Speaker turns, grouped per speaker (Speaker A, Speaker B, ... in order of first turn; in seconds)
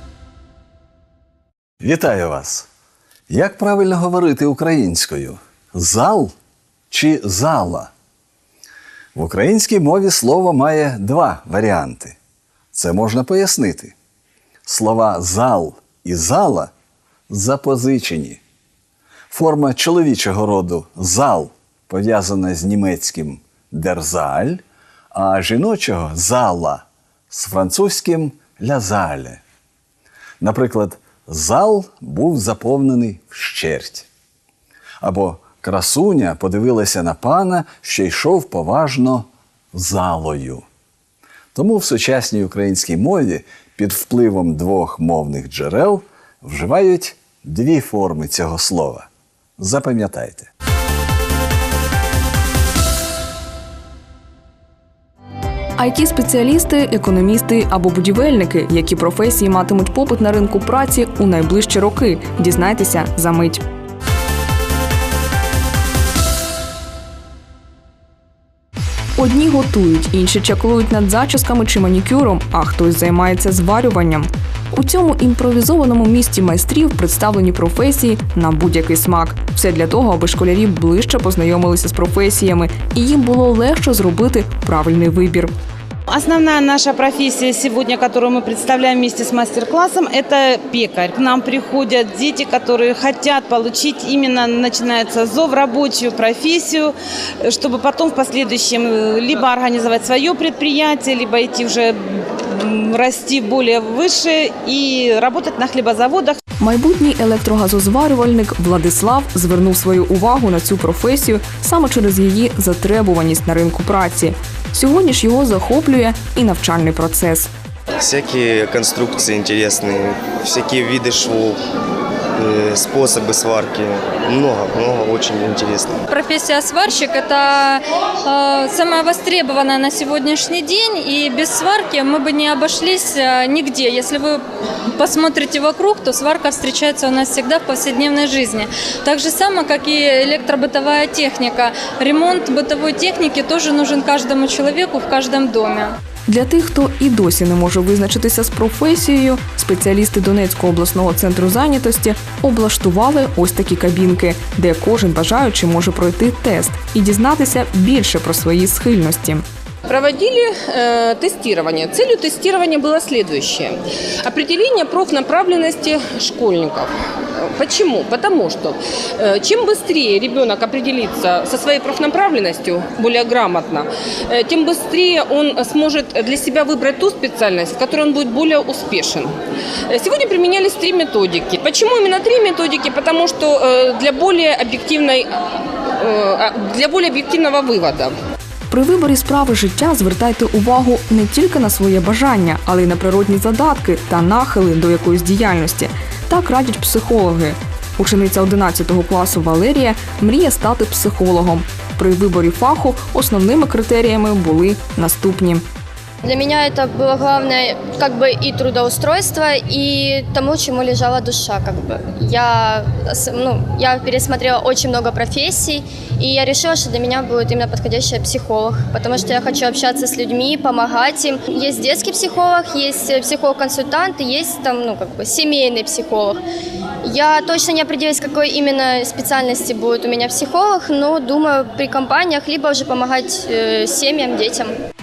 Speaker A: 1.8-2.7, 3.3-6.3, 6.9-7.9, 9.1-12.2, 12.7-13.9, 14.7-16.7, 17.3-18.4, 19.3-24.6, 25.1-29.4, 30.4-34.1, 35.0-40.6, 41.5-50.5
Speaker B: 55.8-63.6, 69.2-85.5, 106.6-117.5, 146.3-159.4, 188.7-205.6
Speaker C: 86.1-106.4
Speaker D: 118.0-121.6, 122.3-126.0
Speaker E: 126.1-134.4, 134.9-145.9
Speaker F: 159.8-179.3, 179.9-185.3, 185.9-188.1
Speaker G: 206.2-226.4, 227.0-234.7